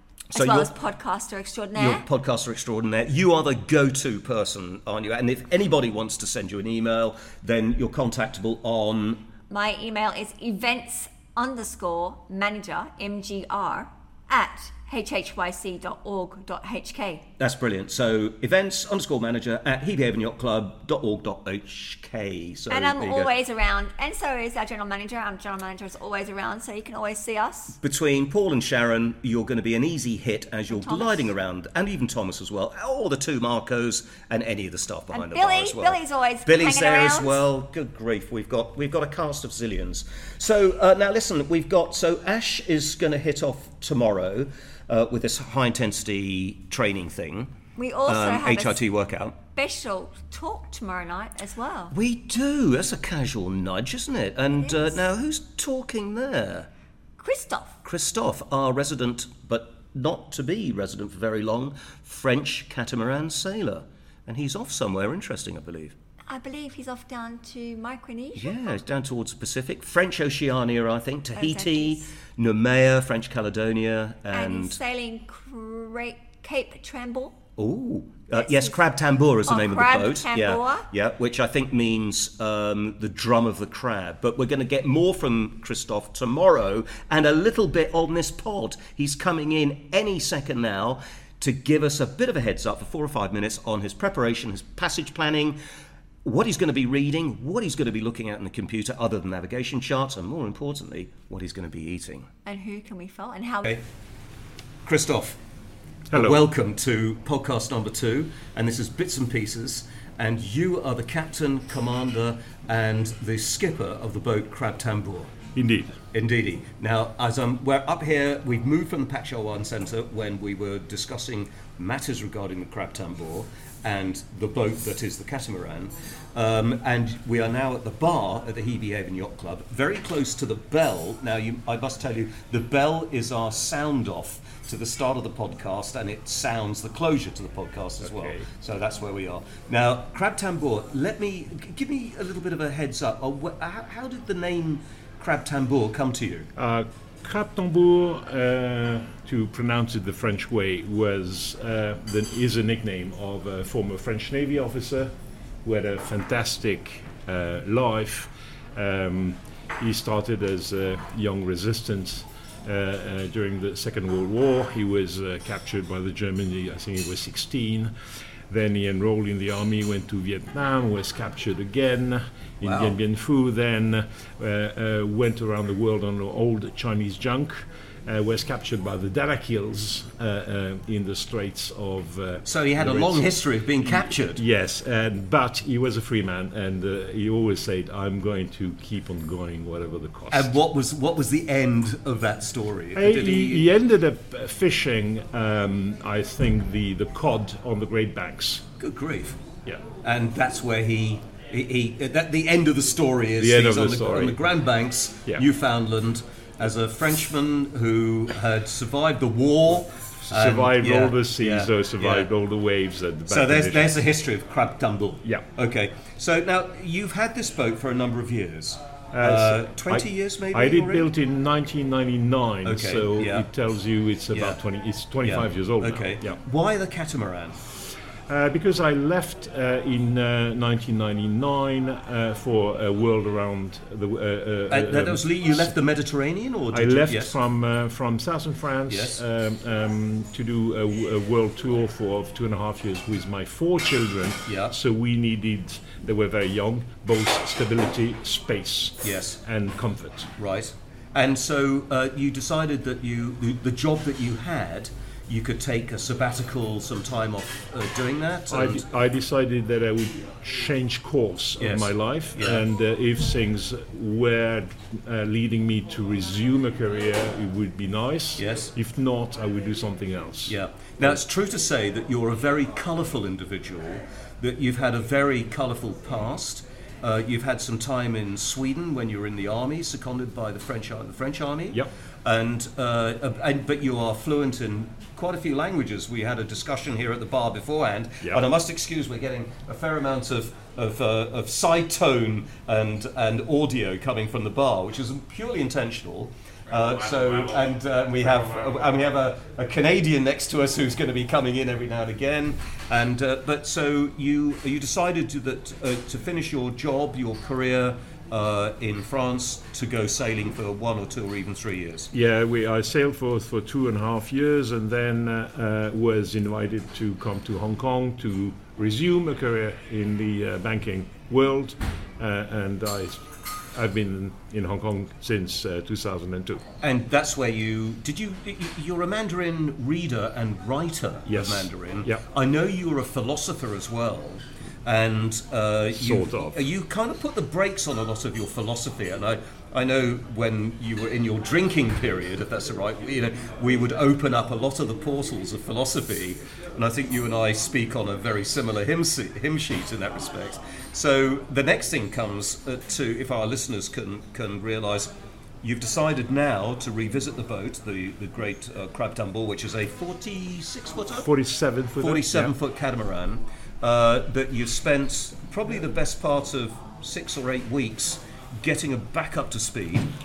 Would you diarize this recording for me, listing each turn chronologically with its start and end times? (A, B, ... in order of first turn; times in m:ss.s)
0:00.3-0:00.7 A
0:00.3-0:02.0 B
0:01.7-0:09.2 A
0:09.5-0:17.3 B
0:17.4-0:23.3 A
0:22.7-0:27.8 B
0:27.8-0:47.5 A
0:30.7-0:31.3 B
0:35.1-0:37.4 B
0:47.8-0:48.8 B
0:48.1-0:49.4 A
0:49.5-0:51.9 B
0:51.9-0:56.7 A
0:54.6-0:55.0 B
0:57.2-0:57.8 B
0:57.8-1:05.9 A
1:06.3-1:08.8 B
1:08.4-1:14.8 A
1:11.4-1:12.1 B
1:14.3-1:17.4 B
1:17.6-1:35.6 A
1:18.3-1:18.8 B
1:19.4-1:20.9 B
1:36.2-1:42.3 A
1:42.4-1:43.8 B
1:44.8-1:45.4 A
1:46.1-1:46.4 C
1:46.1-1:55.3 A
1:55.5-1:56.0 C
1:56.1-2:26.5 A
2:18.1-2:18.4 C
2:26.6-2:35.1 C
2:35.6-2:47.9 C
2:48.5-3:03.3 C
2:52.6-2:53.0 A
3:02.4-3:04.4 A
3:03.8-3:10.5 C
3:10.3-3:13.7 A
3:12.9-3:18.7 C
3:18.8-3:19.4 A
3:20.0-3:32.3 A
3:23.4-3:24.4 C
3:30.2-3:34.0 C
3:33.3-3:41.1 A
3:39.1-3:46.4 C
3:42.6-3:43.5 A
3:44.3-3:44.6 A
3:45.2-3:47.6 A
3:48.3-3:55.7 C
3:54.7-3:57.3 A
3:56.7-4:10.3 C
3:58.9-3:59.2 A
4:04.5-4:04.8 A
4:09.0-4:09.4 A
4:10.4-4:18.8 A
4:18.5-4:31.1 C
4:21.6-4:22.6 A
4:28.4-4:28.7 A
4:30.5-5:12.1 A
5:12.1-5:26.6 C
5:26.8-6:01.3 A
5:31.3-5:32.2 C
5:35.9-5:36.6 C
6:01.2-6:02.5 C
6:02.0-6:10.1 A